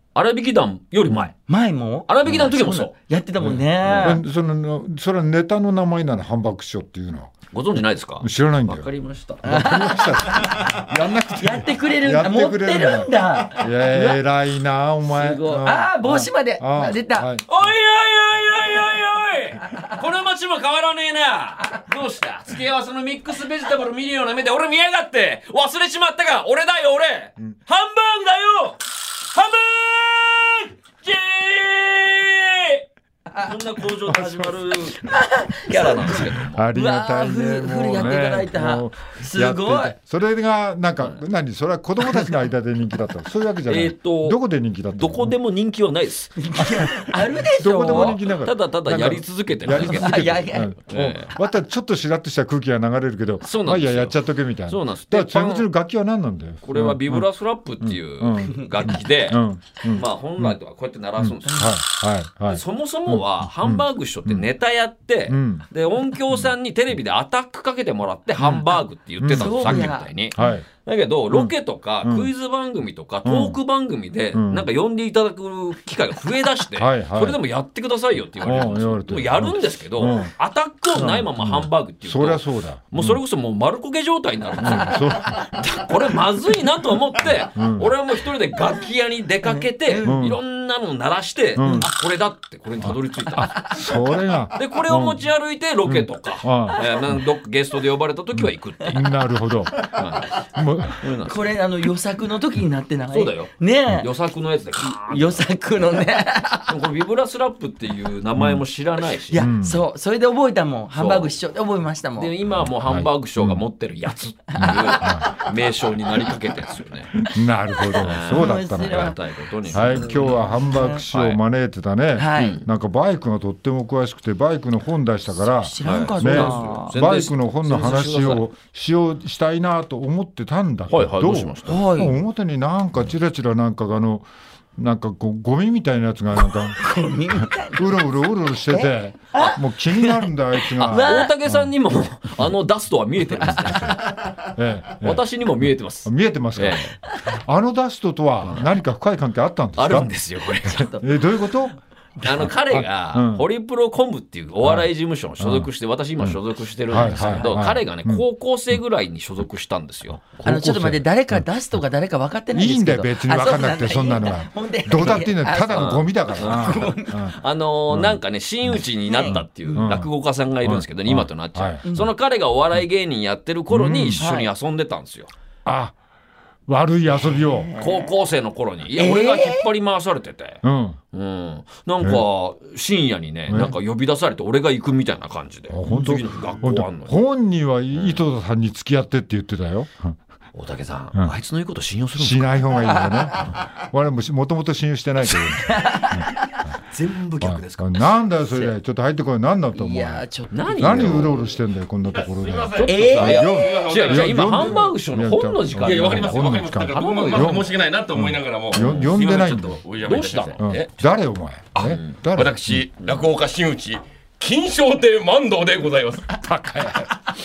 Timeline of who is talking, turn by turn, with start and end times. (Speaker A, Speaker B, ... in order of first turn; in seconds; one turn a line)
Speaker A: 0.1-1.3
Speaker B: 1.5-4.2
Speaker A: 2.1-2.9
Speaker C: 3.4-7.3
Speaker A: 3.8-4.2
Speaker A: 7.5-9.8
Speaker C: 8.2-8.9
Speaker C: 9.4-17.5
Speaker B: 9.4-10.7
Speaker B: 11.4-14.2
Speaker A: 15.1-15.6
Speaker B: 15.4-17.3
Speaker A: 17.5-36.7
Speaker C: 34.1-34.4
Speaker B: 35.0-40.0
Speaker C: 36.5-45.3
Speaker A: 43.7-44.4
Speaker A: 44.9-46.6
Speaker B: 46.4-48.2
Speaker C: 46.7-57.3
Speaker A: 47.6-51.3
Speaker B: 49.8-50.8
Speaker A: 53.4-55.7
Speaker A: 56.6-61.8
Speaker C: 57.8-60.6
Speaker C: 61.2-64.5
Speaker A: 62.5-93.7
Speaker C: 65.3-65.7
Speaker C: 68.4-68.7
Speaker C: 69.2-70.7
Speaker B: 69.4-70.1
Speaker C: 72.0-72.3
Speaker C: 73.2-73.6
Speaker C: 74.3-74.7
Speaker C: 76.8-77.4
Speaker C: 78.4-80.3
Speaker C: 80.9-83.2
Speaker C: 84.6-85.7
Speaker C: 87.5-87.9
Speaker B: 89.4-90.3
Speaker C: 90.0-90.4
Speaker C: 91.6-91.9
Speaker B: 91.6-91.9
Speaker C: 92.8-95.3
Speaker B: 93.3-93.9
Speaker A: 94.5-99.1
Speaker C: 95.9-97.2
Speaker C: 98.4-101.1
Speaker A: 99.8-100.4
Speaker A: 101.0-101.5
Speaker B: 101.2-104.1
Speaker A: 103.1-105.5
Speaker B: 104.8-106.8
Speaker A: 106.7-109.5
Speaker C: 108.4-108.6
Speaker B: 109.3-112.3
Speaker C: 109.3-109.8
Speaker A: 110.9-111.3
Speaker A: 112.2-117.2
Speaker C: 112.8-113.6
Speaker B: 114.5-115.5
Speaker C: 115.0-115.4
Speaker C: 117.3-119.2
Speaker B: 117.9-121.0
Speaker A: 118.0-121.4
Speaker C: 119.7-142.5
Speaker B: 122.2-122.6
Speaker A: 122.4-122.7
Speaker B: 125.6-127.0
Speaker A: 125.8-128.5
Speaker A: 130.9-131.8
Speaker B: 131.7-132.2
Speaker B: 136.7-138.0
Speaker B: 138.7-141.3
Speaker A: 140.8-144.2
Speaker C: 143.8-145.2
Speaker A: 145.0-146.9
Speaker C: 146.1-150.1
Speaker A: 149.8-150.9
Speaker C: 150.7-151.8
Speaker B: 150.8-151.0
Speaker A: 152.2-160.3
Speaker C: 152.3-153.4
Speaker C: 154.6-155.7
Speaker C: 156.9-158.2
Speaker B: 156.9-157.6
Speaker C: 160.2-161.4
Speaker B: 160.4-167.4
Speaker C: 162.5-167.4
Speaker A: 165.7-175.3
Speaker C: 167.9-168.2
Speaker B: 169.1-169.9
Speaker C: 169.3-170.1
Speaker C: 170.6-171.8
Speaker C: 173.7-174.2
Speaker B: 174.2-174.5
Speaker C: 175.7-175.9
Speaker C: 176.7-177.7
Speaker B: 177.4-178.1
Speaker A: 177.8-180.6
Speaker B: 178.9-179.7
Speaker C: 180.6-181.0
Speaker A: 181.1-187.2
Speaker C: 183.5-183.8
Speaker C: 185.7-190.2
Speaker A: 187.9-188.2
Speaker A: 190.6-192.7
Speaker C: 192.2-196.3
Speaker B: 195.6-196.7
Speaker A: 196.9-198.7
Speaker C: 197.4-209.8
Speaker B: 199.8-201.2
Speaker A: 200.5-201.4
Speaker D: 202.1-204.9
Speaker A: 202.7-207.6
Speaker B: 202.8-203.4
Speaker D: 205.8-210.9
Speaker A: 208.7-209.2
Speaker A: 209.9-210.6
Speaker C: 210.6-212.8
Speaker D: 211.8-216.4
Speaker A: 211.9-212.2
Speaker C: 216.4-217.1